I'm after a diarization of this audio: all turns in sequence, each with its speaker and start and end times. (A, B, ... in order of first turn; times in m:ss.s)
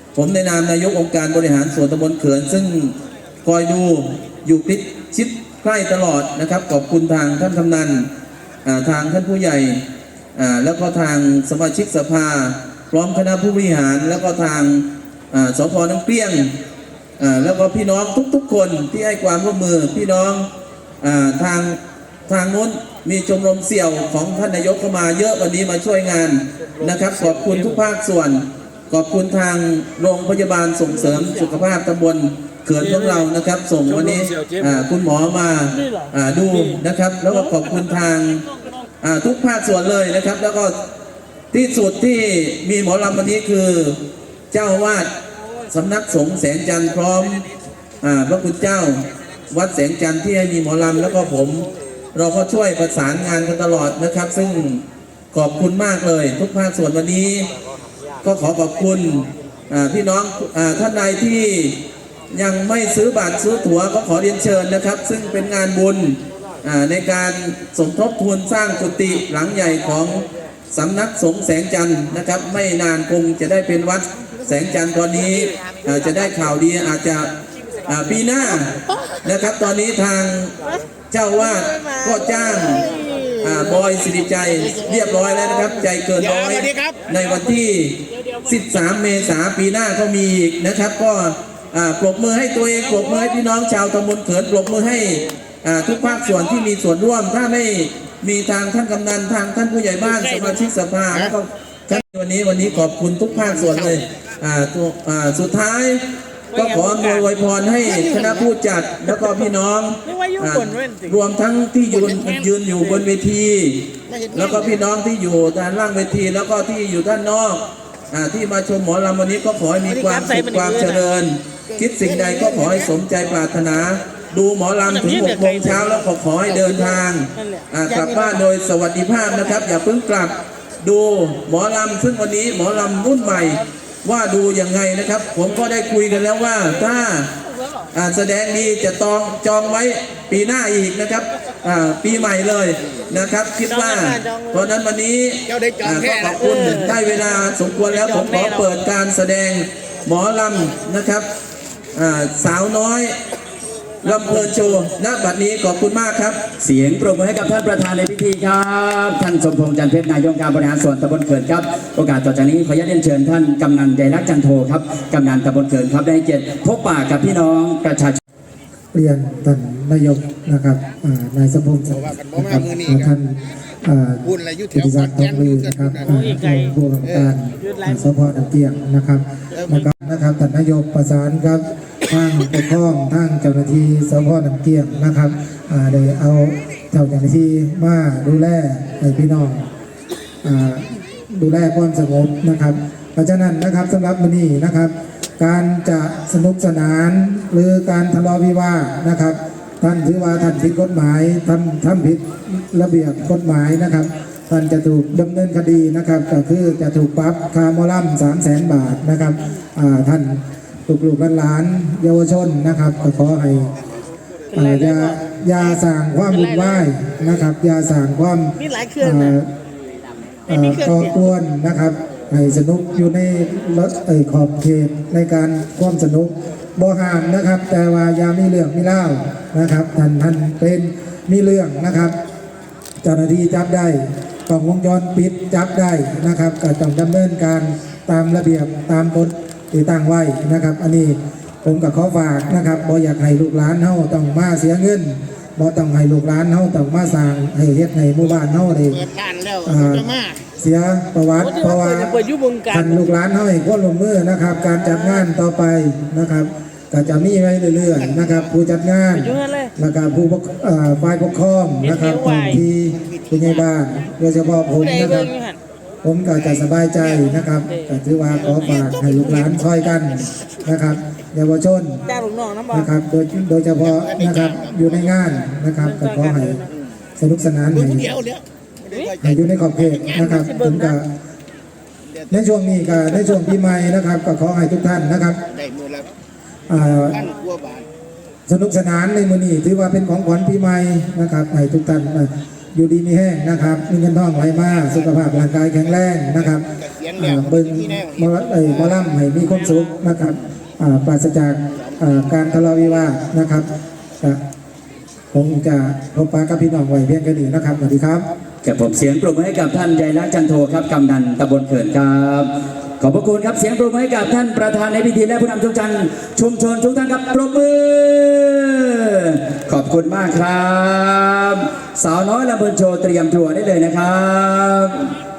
0:00.2-0:08.1 A
0:08.6-0:09.8 A
0:10.4-0:16.6 A
0:17.2-0:20.5 A
0:21.0-0:38.4 A
0:39.0-0:40.8 A
0:41.5-0:44.0 A
0:44.5-0:45.1 A
0:45.7-0:47.5 A
0:48.0-0:57.5 A
0:58.2-1:17.3 A
1:17.9-1:20.5 A
1:21.1-2:17.3 A
1:22.7-1:23.3 B
1:22.8-1:23.3 C
1:24.7-1:25.3 C
1:26.2-1:27.0 C
1:43.6-1:43.9 C
1:46.6-1:46.9 B
1:50.1-1:51.1 B
1:54.1-1:54.7 C
2:00.0-2:00.9 B
2:01.7-2:02.9 C
2:05.0-2:05.7 B
2:17.9-2:31.3 A
2:23.8-2:24.5 B
2:25.5-2:27.0 C
2:28.1-2:28.5 B
2:32.0-2:33.2 A
2:34.0-2:36.4 A
2:36.6-2:48.2 D
2:48.9-3:09.7 E
2:52.1-2:53.0 C
2:54.3-2:56.2 C
2:56.2-2:56.6 B
3:10.4-3:33.7 E
3:34.5-3:35.1 B
3:34.5-3:39.5 E
3:36.4-3:36.8 B
3:38.6-3:39.3 B
3:40.5-3:52.2 E
3:40.5-3:41.1 B
3:53.0-4:09.0 E
4:09.0-4:10.4 C
4:09.6-4:12.2 E
4:11.5-4:12.9 B
4:12.7-4:25.3 E
4:18.0-4:18.5 C
4:19.3-4:19.7 B
4:21.9-4:22.6 B
4:23.1-4:23.5 C
4:24.8-4:25.6 B
4:26.0-4:32.1 E
4:28.4-4:28.8 C
4:28.5-4:29.4 B
4:32.1-4:32.9 B
4:32.7-4:36.6 E
4:33.8-4:35.2 C
4:36.0-4:36.5 B
4:37.2-4:38.1 E
4:37.7-4:40.3 C
4:39.2-4:41.1 E
4:40.2-4:40.9 B
4:42.3-4:45.4 E
4:45.5-4:46.1 C
4:46.7-4:47.2 E
4:46.9-4:47.8 C
4:48.5-4:56.7 E
4:56.9-4:59.0 C
4:57.2-5:03.7 E
5:05.3-5:08.3 E
5:08.6-5:25.1 D